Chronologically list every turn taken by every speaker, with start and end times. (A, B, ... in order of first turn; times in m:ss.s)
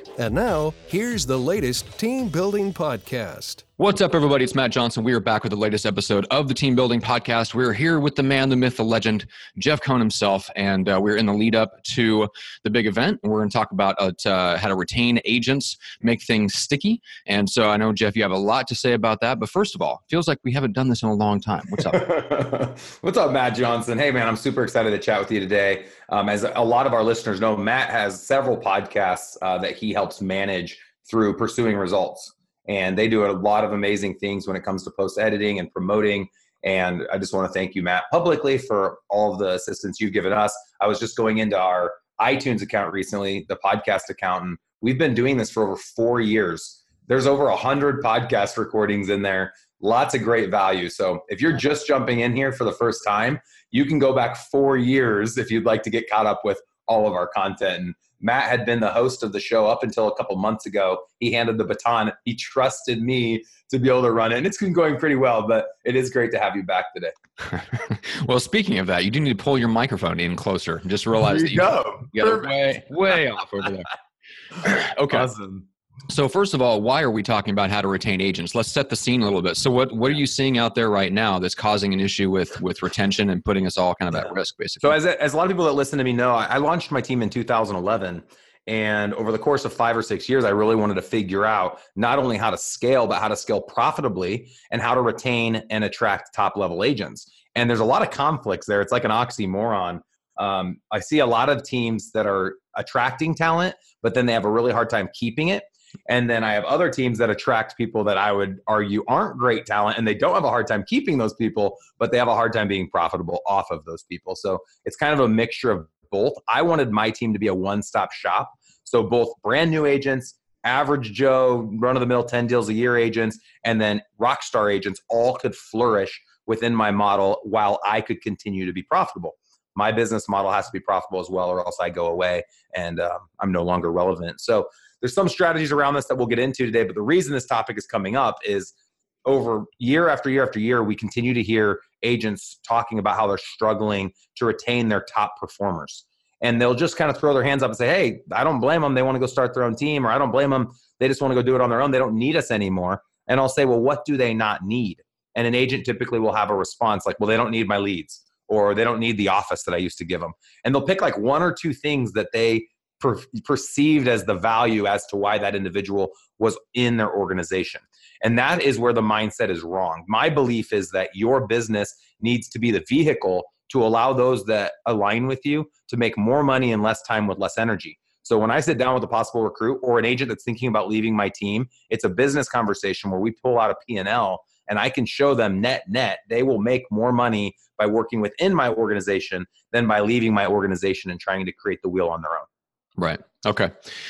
0:00.2-0:03.6 A
0:03.8-0:22.0 B
0:21.8-1:07.1 C
1:07.5-1:13.9 B
1:11.2-1:12.8 C
1:14.6-1:15.3 B
1:14.6-1:15.7 C
1:16.1-1:25.0 B
1:24.8-2:18.7 C
2:19.2-3:12.5 C
3:13.0-3:14.0 B